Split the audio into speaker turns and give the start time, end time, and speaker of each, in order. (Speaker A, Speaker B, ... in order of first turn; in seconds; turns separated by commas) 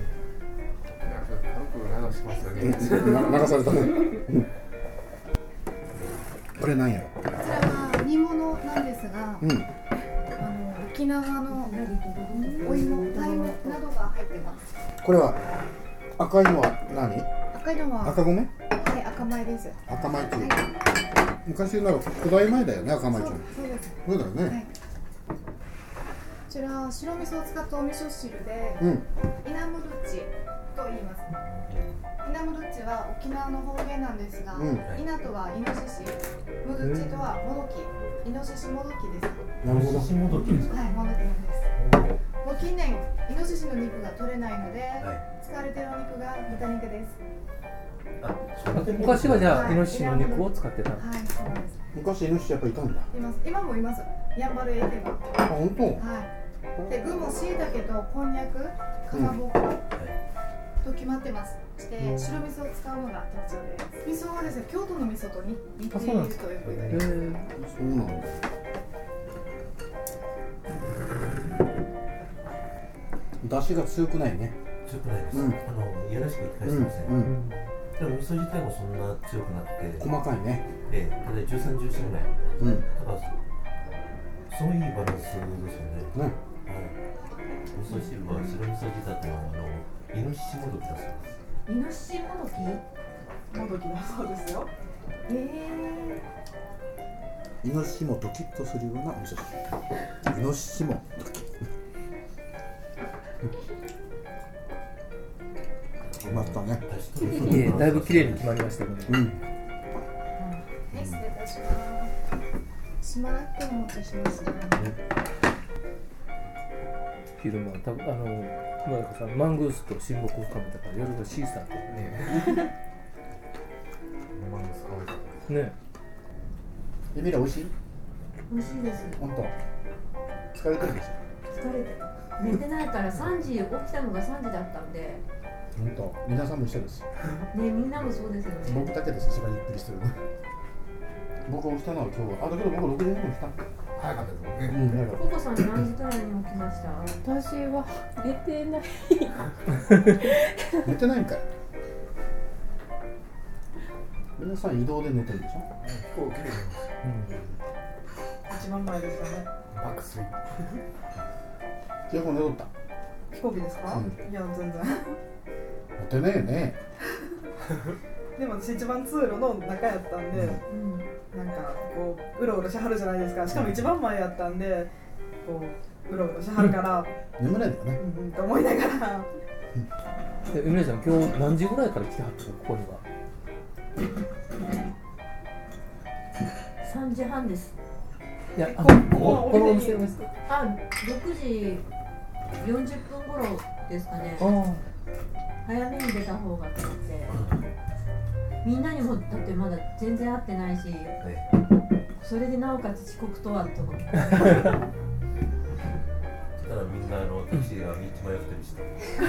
Speaker A: 0.9-3.4, Speaker B: 2.3-3.5, Speaker C: 2.6-4.5, Speaker C: 6.6-7.1, Speaker B: 7.4-9.5, Speaker C: 9.4-9.7, Speaker B: 10.4-11.7, Speaker D: 11.6-13.5, Speaker E: 12.4-13.6, Speaker B: 12.6-14.6, Speaker C: 15.0-15.4, Speaker C: 16.1-17.3, Speaker B: 17.5-20.6, Speaker C: 18.0-18.5, Speaker C: 19.9-20.7, Speaker C: 21.4-23.5, Speaker B: 23.1-24.7, Speaker C: 24.0-24.6, Speaker B: 26.5-31.3, Speaker C: 28.8-29.1, Speaker F: 31.5-32.0, Speaker B: 32.2-39.5, Speaker C: 34.5-34.9, Speaker G: 36.8-37.2, Speaker C: 39.6-40.2, Speaker F: 39.6-41.0, Speaker B: 40.7-41.7, Speaker F: 41.8-42.2, Speaker B: 42.4-47.2, Speaker F: 48.2-49.9, Speaker G: 48.7-51.0, Speaker B: 49.3-51.8, Speaker C: 51.9-53.1, Speaker B: 53.1-55.3, Speaker C: 55.4-56.0, Speaker B: 56.0-56.3, Speaker C: 56.8-57.2, Speaker B: 56.9-59.8, Speaker C: 59.1-59.4, Speaker B: 60.8-67.1, Speaker G: 62.0-62.4, Speaker G: 65.9-67.5, Speaker C: 67.5-68.4, Speaker C: 73.4-74.5, Speaker F: 74.8-77.3, Speaker C: 75.3-75.6, Speaker C: 76.6-77.3, Speaker G: 77.2-77.6, Speaker F: 78.0-80.1, Speaker C: 80.0-80.7, Speaker F: 80.9-83.3, Speaker C: 82.6-82.8, Speaker F: 84.5-87.0, Speaker F: 87.7-91.3, Speaker D: 91.7-92.8, Speaker H: 93.5-94.7, Speaker B: 95.3-96.2, Speaker C: 97.6-99.6, Speaker C: 100.2-101.5, Speaker F: 106.2-108.7, Speaker C: 106.2-106.8, Speaker G: 107.2-109.3, Speaker C: 109.1-109.4, Speaker B: 110.4-112.1, Speaker C: 110.9-111.2, Speaker B: 113.0-114.9, Speaker G: 117.4-121.8, Speaker A: 121.9-122.6, Speaker A: 124.3-125.5, Speaker G: 125.5-125.7, Speaker C: 127.1-127.7, Speaker D: 128.5-129.2, Speaker C: 129.2-129.5, Speaker C: 130.5-131.2, Speaker D: 131.5-135.2, Speaker C: 135.8-137.0, Speaker D: 137.5-138.9, Speaker C: 138.6-140.2, Speaker C: 141.4-143.6, Speaker A: 144.0-144.8, Speaker C: 144.7-145.3, Speaker D: 144.8-147.3, Speaker E: 147.2-149.3, Speaker C: 150.8-151.4, Speaker C: 154.4-155.7, Speaker A: 155.8-156.9, Speaker G: 157.0-157.3, Speaker H: 158.5-159.5, Speaker A: 159.7-160.3, Speaker C: 162.1-162.7, Speaker H: 163.3-165.2, Speaker C: 163.9-164.2, Speaker C: 166.0-166.8, Speaker H: 168.3-170.6, Speaker D: 170.7-171.1, Speaker H: 171.2-174.9, Speaker H: 175.4-177.1, Speaker C: 177.4-178.0, Speaker H: 178.0-179.3, Speaker G: 180.5-183.0, Speaker D: 186.8-187.7, Speaker G: 188.5-190.3, Speaker D: 190.4-191.8, Speaker D: 192.6-194.5, Speaker G: 194.4-194.8, Speaker D: 195.6-197.3, Speaker F: 197.3-197.6, Speaker D: 198.6-201.2, Speaker F: 201.2-201.5, Speaker D: 202.2-204.7, Speaker F: 206.6-209.0